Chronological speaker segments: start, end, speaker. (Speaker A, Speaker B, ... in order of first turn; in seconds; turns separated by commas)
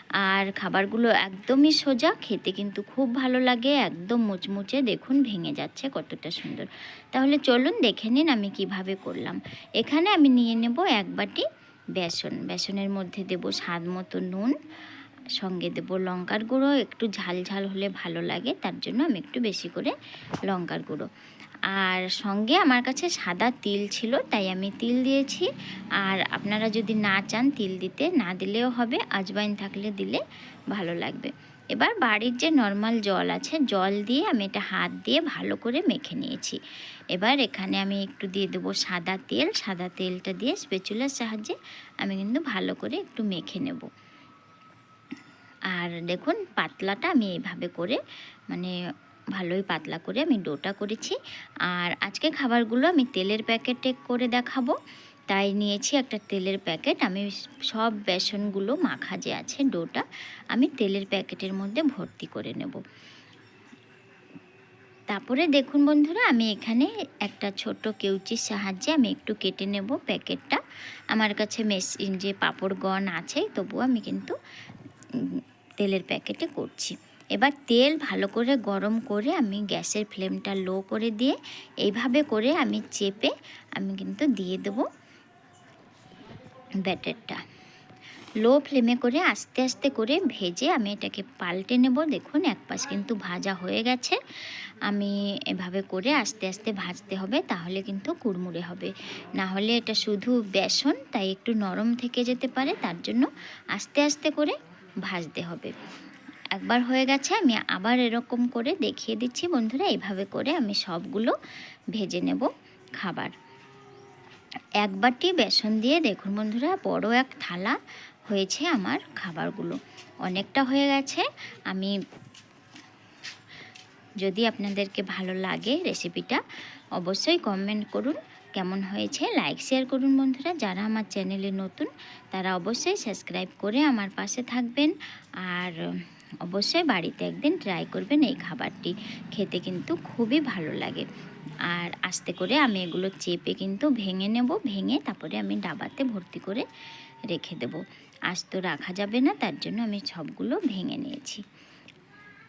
Speaker A: 0.2-14.5, Speaker A: 15.4-19.9, Speaker A: 20.5-21.1, Speaker A: 21.7-25.5, Speaker A: 26.0-30.2, Speaker A: 30.7-36.6, Speaker A: 37.1-43.9, Speaker A: 45.7-48.0, Speaker A: 49.4-51.1, Speaker A: 51.7-54.7, Speaker A: 55.3-62.8, Speaker A: 65.1-70.6, Speaker A: 71.1-74.3, Speaker A: 75.2-84.9, Speaker A: 86.8-87.4, Speaker A: 88.4-94.2, Speaker A: 94.9-104.5, Speaker A: 105.0-105.7, Speaker A: 106.5-111.3, Speaker A: 111.9-112.5, Speaker A: 113.0-113.3, Speaker A: 114.8-117.8, Speaker A: 118.3-121.9, Speaker A: 124.2-126.4, Speaker A: 127.0-134.9, Speaker A: 135.4-135.8, Speaker A: 136.4-141.0, Speaker A: 141.7-146.6, Speaker A: 147.3-151.4